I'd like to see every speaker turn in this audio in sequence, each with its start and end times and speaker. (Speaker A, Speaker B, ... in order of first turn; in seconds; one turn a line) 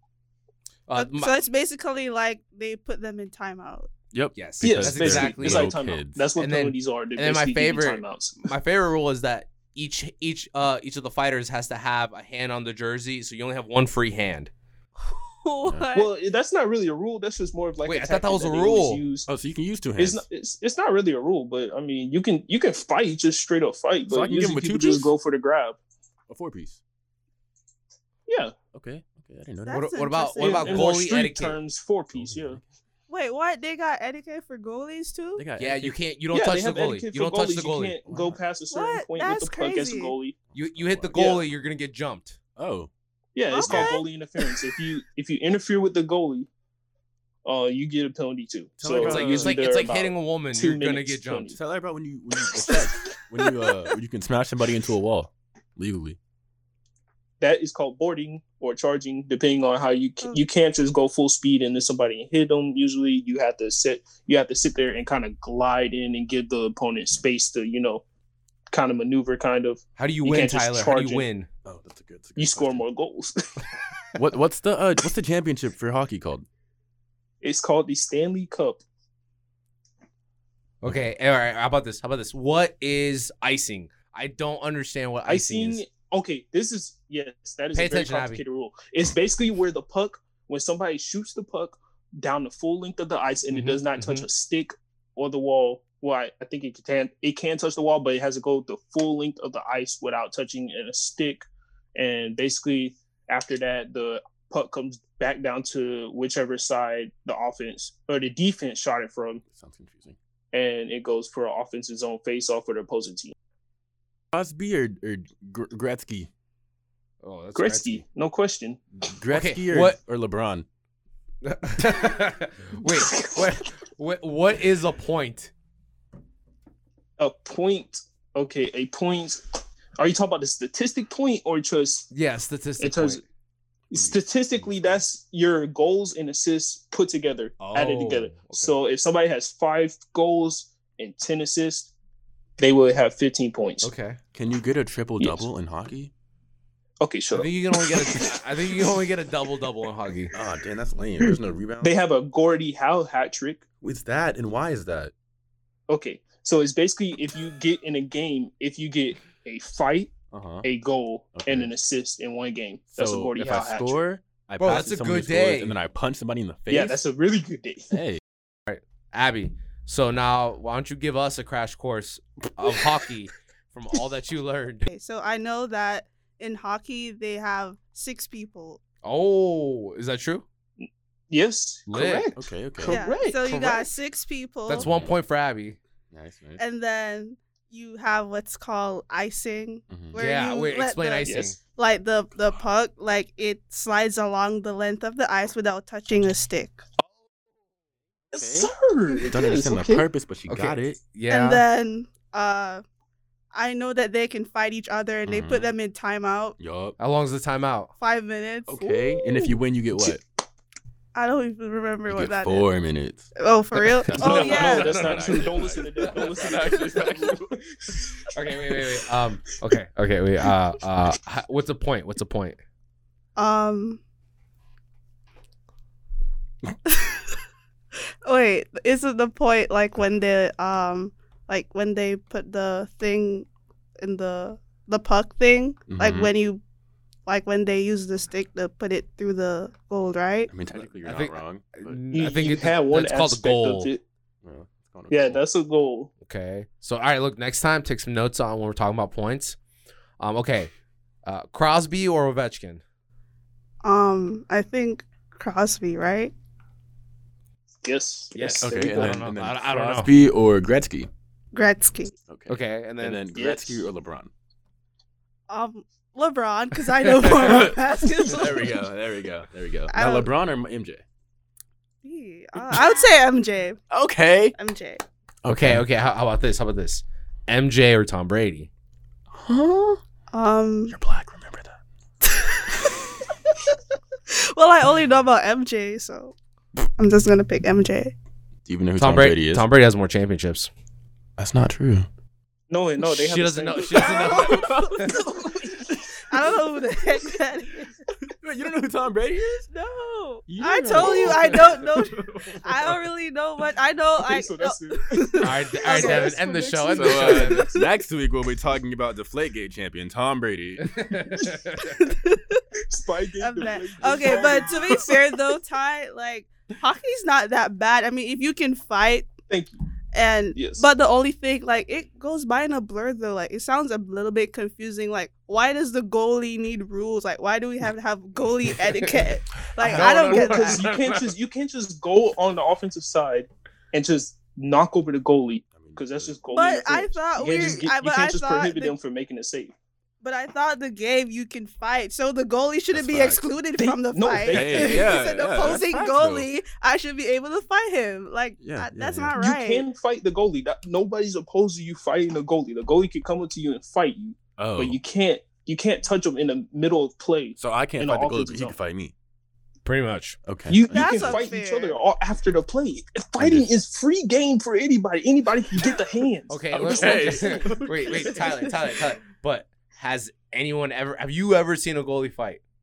Speaker A: 0.9-1.3
Speaker B: 0.9-3.9
Speaker C: 4.1-6.3
Speaker A: 4.3-5.8
Speaker D: 4.6-8.4
Speaker A: 6.4-14.5
Speaker B: 15.0-16.1
Speaker D: 15.9-19.3
Speaker A: 17.8-19.0
Speaker C: 19.3-20.2
Speaker D: 20.0-25.8
Speaker C: 24.1-25.1
Speaker C: 26.3-26.8
Speaker D: 28.3-28.5
Speaker C: 28.7-30.0
Speaker B: 29.6-30.8
Speaker A: 29.7-31.6
Speaker D: 30.4-32.6
Speaker C: 32.1-32.6
Speaker B: 33.1-35.4
Speaker C: 35.4-36.0
Speaker A: 35.6-38.0
Speaker D: 36.3-40.4
Speaker C: 38.1-38.4
Speaker B: 38.7-40.1
Speaker C: 40.5-41.2
Speaker A: 40.5-42.4
Speaker D: 41.1-41.4
Speaker C: 42.5-42.9
Speaker D: 43.3-46.5
Speaker B: 43.5-44.5
Speaker D: 47.4-51.6
Speaker C: 48.8-49.6
Speaker A: 49.0-51.5
Speaker C: 51.5-56.2
Speaker D: 57.4-68.0
Speaker D: 68.7-71.2
Speaker A: 70.0-71.5
Speaker C: 71.6-72.8
Speaker D: 72.4-73.7
Speaker C: 74.1-76.5
Speaker D: 77.4-78.8
Speaker A: 80.8-85.8
Speaker D: 85.3-109.4
Speaker A: 87.7-88.4
Speaker A: 93.5-94.2
Speaker C: 109.5-110.2
Speaker D: 110.5-113.3
Speaker C: 114.3-116.3
Speaker A: 117.2-118.0
Speaker D: 117.5-118.8
Speaker C: 119.1-120.7
Speaker A: 119.3-120.0
Speaker A: 121.4-125.5
Speaker D: 122.8-123.5
Speaker D: 127.2-132.1
Speaker A: 132.1-133.2
Speaker D: 132.8-133.2
Speaker C: 133.9-135.0
Speaker D: 133.9-141.9
Speaker A: 137.6-138.7
Speaker D: 142.6-143.9
Speaker A: 143.8-144.2
Speaker C: 144.3-146.1
Speaker D: 145.2-145.4
Speaker D: 147.0-148.9
Speaker A: 147.3-150.3
Speaker C: 150.3-151.9
Speaker D: 151.2-153.6
Speaker C: 153.8-155.1
Speaker D: 155.9-164.0
Speaker C: 160.3-160.7
Speaker C: 161.3-161.7
Speaker C: 162.9-167.0
Speaker A: 164.6-165.8
Speaker D: 166.7-167.9
Speaker C: 167.9-168.2
Speaker A: 168.7-174.9
Speaker B: 174.9-178.8
Speaker A: 179.0-180.4
Speaker D: 180.8-183.9
Speaker A: 181.9-182.3
Speaker C: 182.3-183.0
Speaker B: 182.9-184.9
Speaker A: 184.7-185.8
Speaker C: 184.7-185.1
Speaker C: 186.1-186.6
Speaker B: 186.6-196.8
Speaker C: 189.9-190.2
Speaker A: 190.2-191.6
Speaker D: 191.2-191.5
Speaker D: 198.3-200.0
Speaker C: 198.3-198.7
Speaker C: 199.2-201.0
Speaker A: 200.5-201.6
Speaker B: 201.3-202.8
Speaker B: 203.5-206.6
Speaker C: 205.2-205.7
Speaker C: 206.6-207.0
Speaker A: 207.0-207.9
Speaker B: 208.0-209.5
Speaker C: 208.7-210.2
Speaker B: 211.1-212.7
Speaker C: 212.1-213.3
Speaker B: 213.4-215.2
Speaker C: 214.0-217.6
Speaker D: 214.1-218.1
Speaker A: 214.3-215.1
Speaker A: 218.3-222.6
Speaker B: 223.3-224.0
Speaker B: 226.8-227.3
Speaker B: 228.2-233.5
Speaker B: 234.0-236.6
Speaker C: 235.9-236.3
Speaker B: 237.2-240.5
Speaker C: 240.5-242.0
Speaker A: 240.8-243.9
Speaker D: 242.1-244.0
Speaker C: 244.4-245.4
Speaker D: 245.1-246.1
Speaker A: 246.2-249.6
Speaker A: 250.2-250.7
Speaker A: 251.2-252.8
Speaker B: 253.8-256.3
Speaker D: 257.8-259.2
Speaker A: 258.3-260.1
Speaker C: 258.6-261.1
Speaker B: 261.5-262.1
Speaker C: 262.3-264.3
Speaker A: 262.5-263.2
Speaker D: 263.3-263.8
Speaker B: 265.5-268.7
Speaker C: 267.1-271.0
Speaker B: 269.9-270.3
Speaker B: 272.0-273.9
Speaker C: 272.6-272.9
Speaker C: 273.9-274.6
Speaker B: 274.6-275.0
Speaker C: 275.4-275.8
Speaker A: 275.5-278.7
Speaker C: 279.3-280.0
Speaker B: 280.3-280.9
Speaker C: 280.9-281.7
Speaker B: 282.3-282.9
Speaker B: 284.3-286.3
Speaker B: 287.0-288.1
Speaker C: 288.6-289.7
Speaker A: 289.0-290.7
Speaker C: 291.4-292.1
Speaker D: 292.7-294.5
Speaker A: 293.0-295.2
Speaker C: 294.0-295.4
Speaker B: 294.1-295.3
Speaker D: 295.4-295.9
Speaker B: 296.3-297.9
Speaker C: 298.3-299.7
Speaker B: 299.7-307.8
Speaker C: 300.5-303.0
Speaker A: 301.2-301.6
Speaker D: 304.2-306.4
Speaker A: 305.4-307.8
Speaker C: 306.9-311.0
Speaker A: 310.8-312.0
Speaker B: 311.8-312.6
Speaker D: 312.9-315.4
Speaker B: 313.4-319.4
Speaker D: 319.5-319.8
Speaker B: 320.1-330.8
Speaker D: 320.5-320.8
Speaker D: 329.8-339.7
Speaker A: 329.8-331.2
Speaker C: 335.7-336.4
Speaker B: 336.5-338.9
Speaker B: 340.2-349.9
Speaker C: 342.9-343.4
Speaker D: 343.8-345.8
Speaker C: 344.5-346.5
Speaker C: 348.6-349.3
Speaker D: 349.4-358.8
Speaker C: 354.6-355.0
Speaker C: 357.6-359.1
Speaker A: 359.8-360.4
Speaker C: 360.4-361.5
Speaker D: 360.7-368.6
Speaker B: 360.9-362.0
Speaker C: 363.4-363.7
Speaker A: 366.5-372.6
Speaker C: 366.7-368.6